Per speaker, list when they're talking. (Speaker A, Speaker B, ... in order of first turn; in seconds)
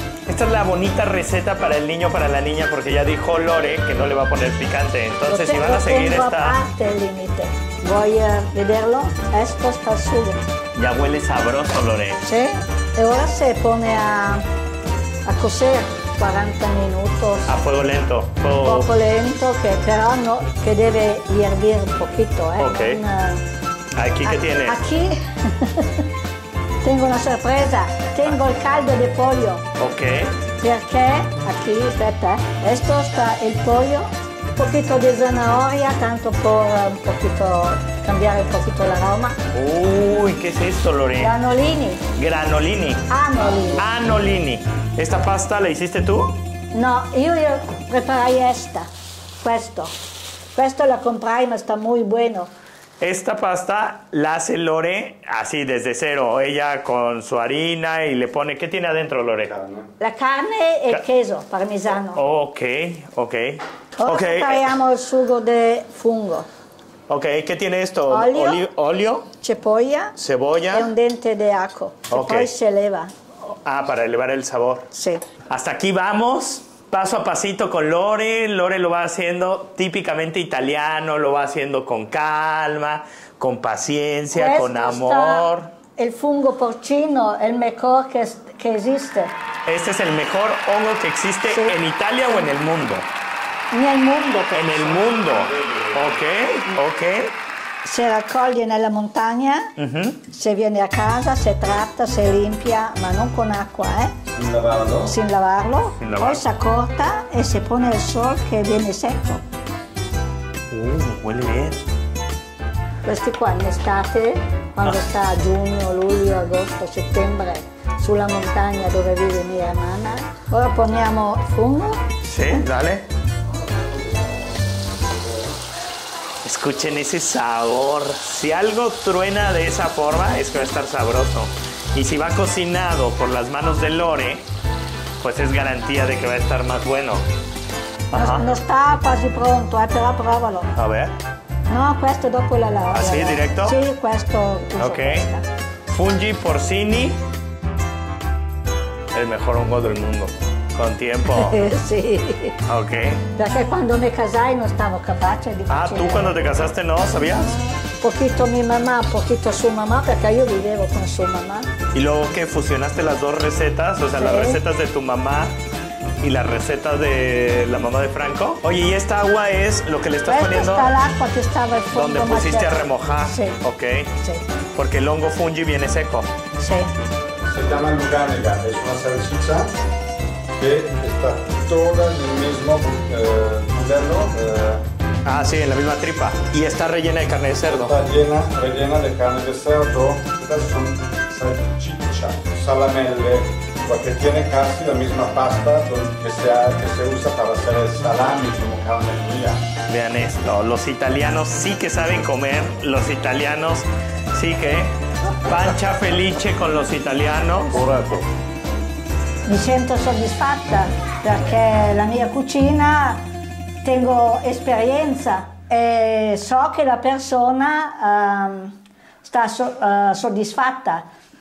Speaker A: 0.2-6.6, 10.7-12.2, 17.4-18.9, 22.6-23.0, 23.9-24.8, 29.8-30.4, 39.5-41.3, 42.1-43.0, 43.7-46.4, 53.0-59.5, 62.1-64.7, 67.1-69.3, 70.2-70.9, 72.1-72.5, 73.5-74.9, 75.5-85.8, 89.7-93.1, 94.5-97.3, 99.8-100.2, 106.0-106.4, 110.7-111.8, 122.2-123.0, 126.4-134.4, 135.2-137.2, 138.1-138.5, 140.7-141.1, 142.9-143.8, 144.8-145.3, 145.9-147.2, 149.1-151.6, 152.6-153.2, 155.7-157.6, 161.9-165.5, 166.2-170.9, 171.9-174.1, 174.7-176.3, 185.2-187.9, 199.9-208.1
Speaker B: 5.2-10.4, 12.2-14.4, 15.2-17.5, 18.6-23.4, 24.2-26.1, 26.8-29.6, 30.6-39.4, 41.2-42.0, 43.1-43.8, 46.7-48.9, 49.4-49.9, 50.5-52.5, 60.0-62.2, 63.9-66.5, 68.1-68.6, 69.4-70.1, 70.7-73.1, 74.9-75.2, 84.3-89.3, 93.7-95.0, 97.8-99.7, 100.3-104.1, 105.0-109.4, 113.0-122.0, 138.1-140.7, 141.7-145.4, 151.2-152.6, 153.3-156.4, 157.2-161.7, 164.1-164.6, 170.3-173.6, 176.6-176.9, 209.4-213.2, 213.8-221.1
Speaker C: 59.5-59.9, 104.3-105.1, 177.5-179.7, 180.6-184.8, 187.7-199.6